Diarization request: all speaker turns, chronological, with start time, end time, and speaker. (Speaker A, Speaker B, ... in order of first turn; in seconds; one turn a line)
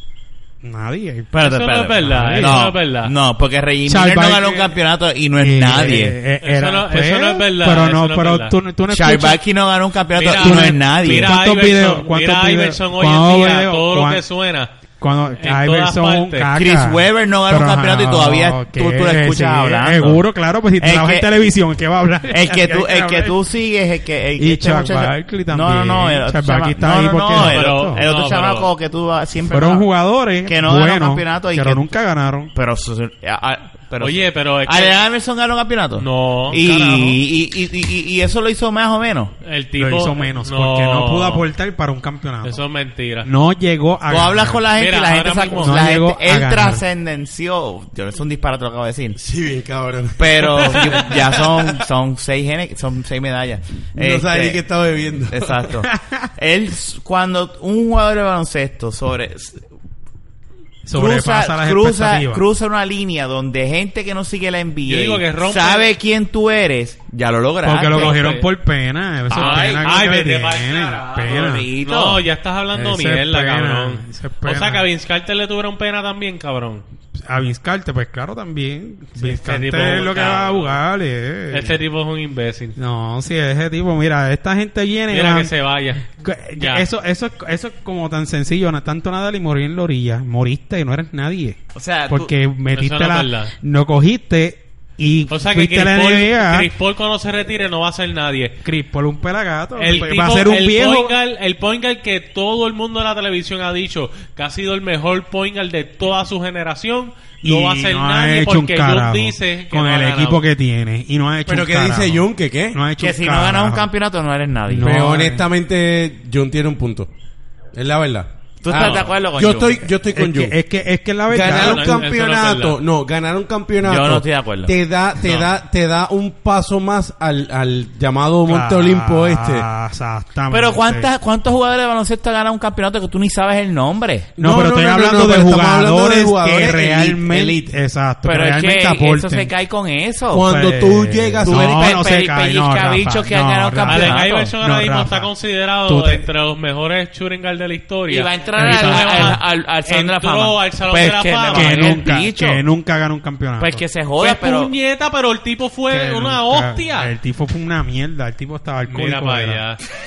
Speaker A: 0.6-1.3
Speaker B: 1.3-6.2
Speaker C: 1.4-3.1
Speaker A: 2.1-2.6
Speaker A: 3.9-4.7
Speaker A: 5.4-9.4
Speaker C: 6.4-8.5
Speaker B: 8.9-11.3
Speaker C: 10.2-14.7
Speaker A: 10.3-14.2
Speaker A: 15.0-23.4
Speaker C: 15.4-16.5
Speaker B: 16.5-20.2
Speaker B: 20.8-21.3
Speaker B: 22.3-29.9
Speaker A: 24.4-28.0
Speaker C: 27.4-28.7
Speaker A: 29.5-32.5
Speaker B: 30.4-31.9
Speaker B: 32.5-39.3
Speaker C: 34.0-35.0
Speaker C: 36.0-36.6
Speaker A: 36.5-37.2
Speaker C: 39.4-41.4
Speaker A: 39.8-42.6
Speaker C: 42.4-43.3
Speaker A: 43.2-44.6
Speaker B: 44.1-49.2
Speaker C: 44.7-45.8
Speaker A: 45.6-46.8
Speaker D: 49.2-51.7
Speaker B: 50.2-54.6
Speaker D: 53.9-55.7
Speaker B: 55.3-59.6
Speaker A: 60.8-62.4
Speaker B: 60.9-68.2
Speaker C: 64.8-65.9
Speaker A: 67.6-71.7
Speaker C: 67.9-68.5
Speaker B: 69.3-70.0
Speaker C: 69.3-76.8
Speaker B: 71.3-72.2
Speaker A: 72.7-74.8
Speaker A: 77.2-81.8
Speaker C: 79.2-80.8
Speaker C: 81.5-82.8
Speaker A: 82.8-85.5
Speaker C: 85.1-86.0
Speaker A: 86.2-96.7
Speaker C: 86.6-86.9
Speaker B: 91.7-92.3
Speaker C: 92.7-93.5
Speaker C: 95.3-98.6
Speaker A: 98.6-101.1
Speaker C: 99.8-110.4
Speaker A: 107.4-113.9
Speaker D: 111.5-112.8
Speaker B: 113.0-114.9
Speaker A: 114.7-115.4
Speaker D: 114.8-117.1
Speaker D: 117.7-120.5
Speaker B: 118.6-119.8
Speaker C: 118.7-119.1
Speaker A: 120.1-122.0
Speaker D: 121.3-129.7
Speaker C: 121.5-122.8
Speaker B: 123.8-124.7
Speaker A: 128.5-131.1
Speaker B: 130.5-134.3
Speaker D: 134.4-137.6
Speaker A: 134.4-139.5
Speaker B: 138.2-140.5
Speaker D: 140.3-141.9
Speaker A: 140.5-145.3
Speaker B: 141.4-144.5
Speaker C: 143.8-152.0
Speaker A: 145.9-146.2
Speaker B: 148.1-152.6
Speaker A: 148.6-149.4
Speaker A: 151.5-153.8
Speaker B: 153.6-154.7
Speaker C: 154.2-157.1
Speaker A: 155.9-159.6
Speaker C: 158.9-159.8